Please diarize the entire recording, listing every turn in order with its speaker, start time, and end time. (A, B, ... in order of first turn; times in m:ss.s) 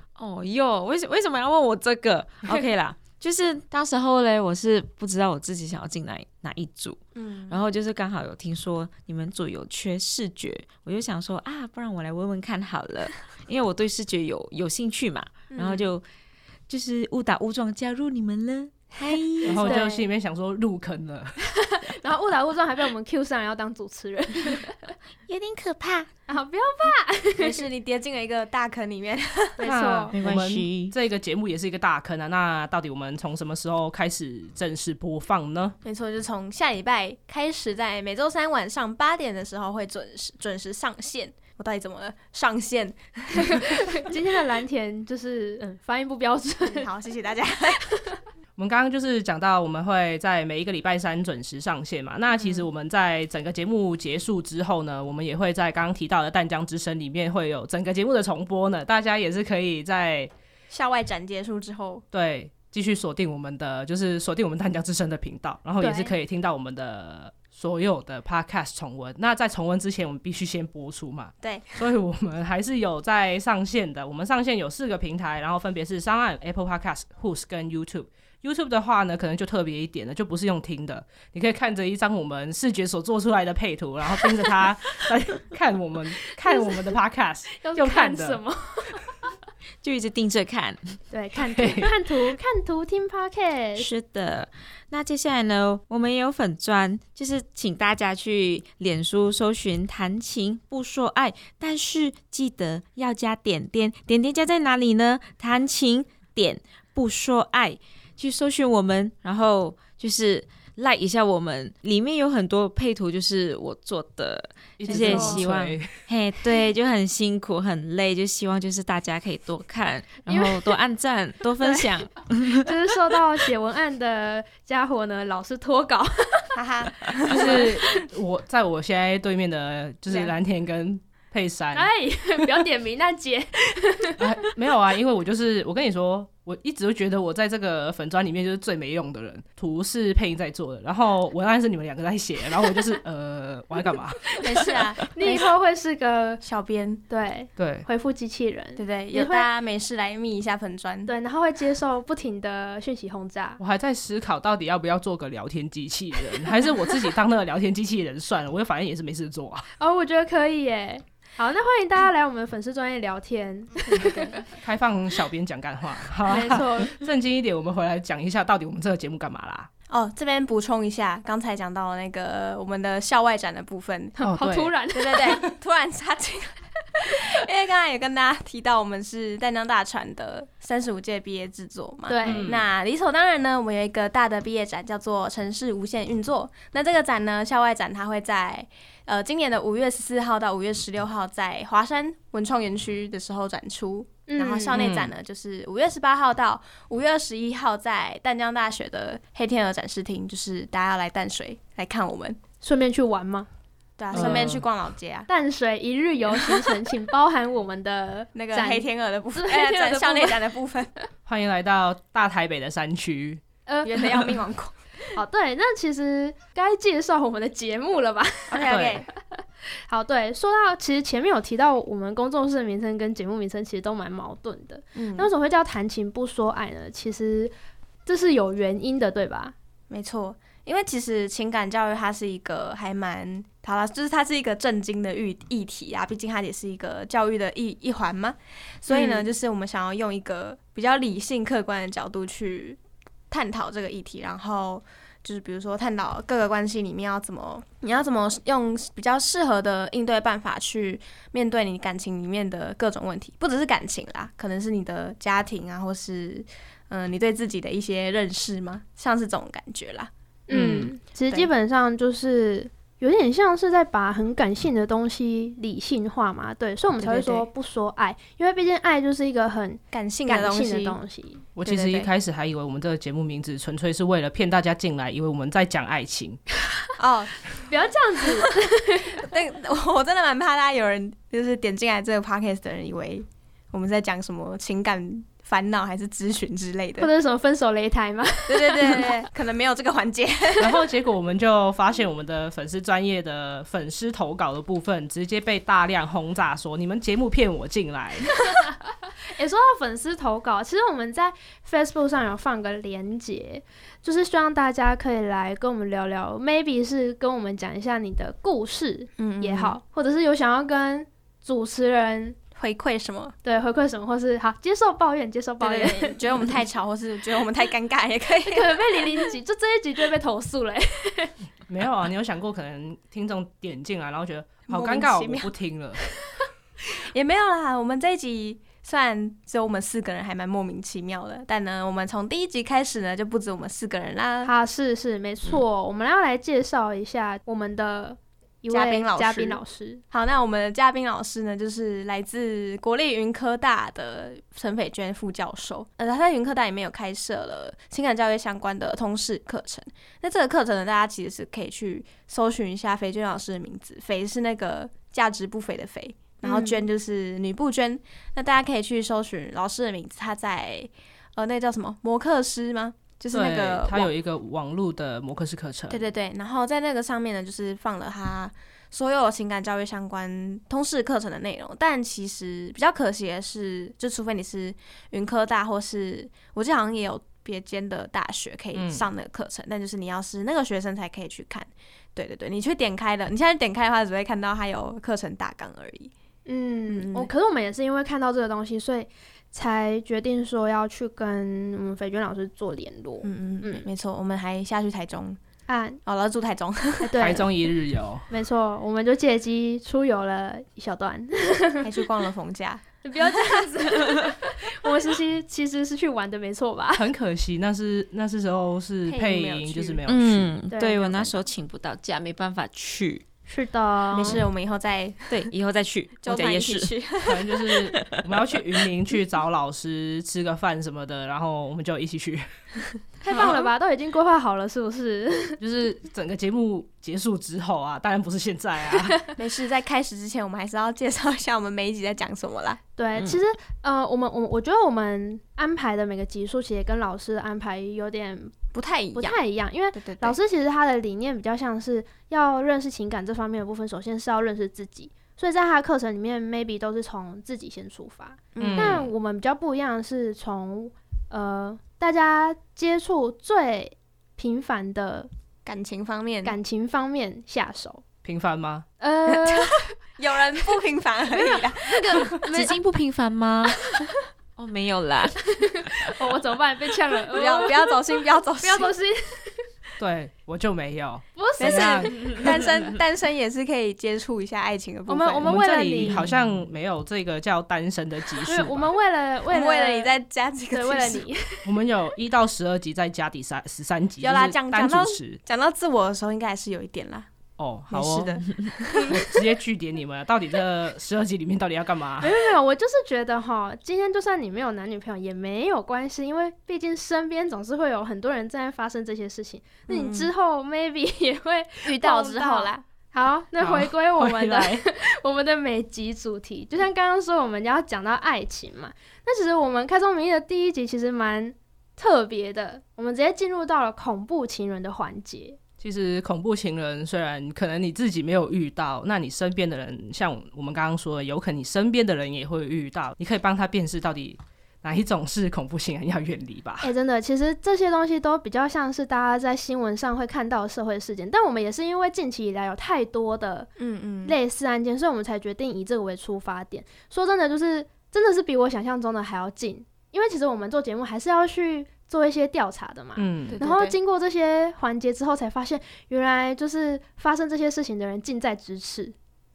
0:00.2-0:16.0 A
0:07.2-0:07.6 B
0:15.5-0:15.9 B
0:16.7-0:19.7 A
0:19.4-0:21.4 C
0:19.6-0:20.0 D
0:21.5-0:24.9 D
0:25.3-0:26.1 A
0:26.3-0:27.6 D
0:27.4-0:29.7 B
0:29.6-0:30.2 D
0:29.6-0:35.7 C
0:30.1-0:30.9 A
0:35.8-0:43.7 B
0:43.4-0:46.9 D
0:46.6-0:47.8 B
0:47.8-0:48.2 D
0:48.6-1:00.3 C
0:52.3-0:52.7 B
1:00.7-1:02.0 B
1:02.1-1:28.4 C
1:05.8-1:06.1 D
1:11.4-1:11.8 B
1:26.3-1:27.0 D
1:27.5-1:29.3 D
1:29.8-1:31.0 A
1:31.1-1:33.9 D
1:31.5-1:31.9 C
1:33.8-2:02.6 A
1:54.8-1:55.9 C
1:54.9-1:55.4 D
2:00.3-2:00.7 D
2:01.6-2:06.6 D
2:06.5-2:07.7 B
2:07.2-2:07.8 D
2:07.2-2:11.9 C
2:10.1-2:10.3 B
2:11.7-2:14.2 D
2:14.2-2:24.3 C
2:24.4-2:25.5 B
2:24.5-2:26.4 D
2:26.4-2:27.0 B
2:27.1-2:29.5 D
2:27.6-2:27.8 C
2:28.8-2:31.1 B
2:31.0-2:33.6 D
2:33.6-2:39.6 C
2:39.8-2:44.4 D
2:43.9-2:44.4 B
2:44.6-2:49.7 C
2:46.3-2:46.9 D
2:49.9-2:54.2 B
2:54.2-2:55.4 D
2:54.2-2:54.7 C
2:54.9-3:22.4 B
3:02.1-3:02.5 D
3:02.2-3:02.6 C
3:14.3-3:14.8 D
3:14.7-3:15.1 C
3:22.6-3:23.5 D
3:24.0-3:25.3 B
3:24.1-3:24.6 C
3:24.1-3:24.4 D
3:25.3-3:30.4 D
3:28.3-3:30.9 B
3:31.2-3:33.4 C
3:33.7-3:34.1 D
3:33.8-3:34.8 B
3:35.1-3:38.7 D
3:38.5-3:39.1 B
3:38.6-3:39.0 C
3:39.9-3:47.5 D
3:44.9-3:45.3 B
3:48.0-3:49.5 D
3:49.9-4:20.1 B
3:58.9-3:59.3 D
4:20.5-4:31.4 D
4:20.5-4:20.9 C
4:27.0-4:27.5 B
4:29.9-4:31.0 B
4:31.6-4:36.4 C
4:31.6-4:32.1 B
4:37.0-4:37.5 B
4:37.6-4:39.2 D
4:39.1-4:47.1 B
4:47.0-4:49.2 D
4:48.5-4:50.7 B
4:50.6-4:58.4 C
4:59.4-5:12.4 D
5:09.2-5:09.8 B
5:12.5-5:13.3 B
5:13.4-5:16.5 D
5:15.6-5:19.1 B
5:18.4-5:21.3 D
5:21.7-5:26.0 C
5:24.7-5:25.5 B
5:26.9-5:34.5 B
5:34.4-5:40.0 D
5:38.7-6:04.1 B
5:56.4-5:56.8 D
6:03.3-6:06.0 C
6:05.9-6:26.1 B
6:18.7-6:19.0 C
6:26.4-6:33.8 D
6:26.9-6:27.3 B
6:33.2-6:35.4 B
6:35.7-6:36.0 D
6:36.0-6:37.2 B
6:37.0-6:37.5 D
6:37.2-6:38.2 C
6:38.3-6:41.8 D
6:41.8-6:43.6 B
6:43.0-6:47.0 D
6:46.9-6:50.5 C
6:49.0-6:50.0 B
6:50.1-6:53.2 A
6:50.7-6:51.3 D
6:53.5-6:54.4 D
6:54.1-6:55.4 B
6:55.3-6:56.9 A
6:56.2-6:57.6 B
6:57.2-7:02.5 C
7:03.2-7:05.6 D
7:05.6-7:09.2 C
7:09.4-7:12.8 B
7:13.0-7:18.5 D
7:18.7-7:19.4 B
7:19.1-7:35.3 D
7:20.0-7:20.4 B
7:28.5-7:29.1 B
7:28.6-7:29.1 C
7:35.6-7:36.5 B
7:36.4-7:38.0 D
7:38.2-7:38.8 C
7:39.0-7:39.9 D
7:39.3-7:42.7 B
7:41.9-7:42.6 D
7:42.3-7:45.4 A
7:45.5-7:48.0 D
7:47.3-7:48.9 B
7:48.6-7:49.6 D
7:50.0-7:52.5 C
7:51.4-7:52.7 D
7:51.6-7:55.5 B
7:55.1-7:56.3 D
7:55.4-7:58.9 C
7:58.4-8:00.1 D
7:59.5-8:01.2 B
8:00.7-8:01.7 D
8:01.6-8:05.4 C
8:04.2-8:07.3 B
8:07.6-8:12.4 C
8:07.9-8:09.3 B
8:12.2-8:35.6 D
8:19.9-8:20.3 B
8:21.8-8:22.8 B
8:23.6-8:24.8 C
8:35.8-8:46.9 C
8:46.8-8:53.7 D
8:53.8-8:54.4 B
8:54.2-9:09.1 D
9:03.2-9:03.6 C
9:03.5-9:04.0 B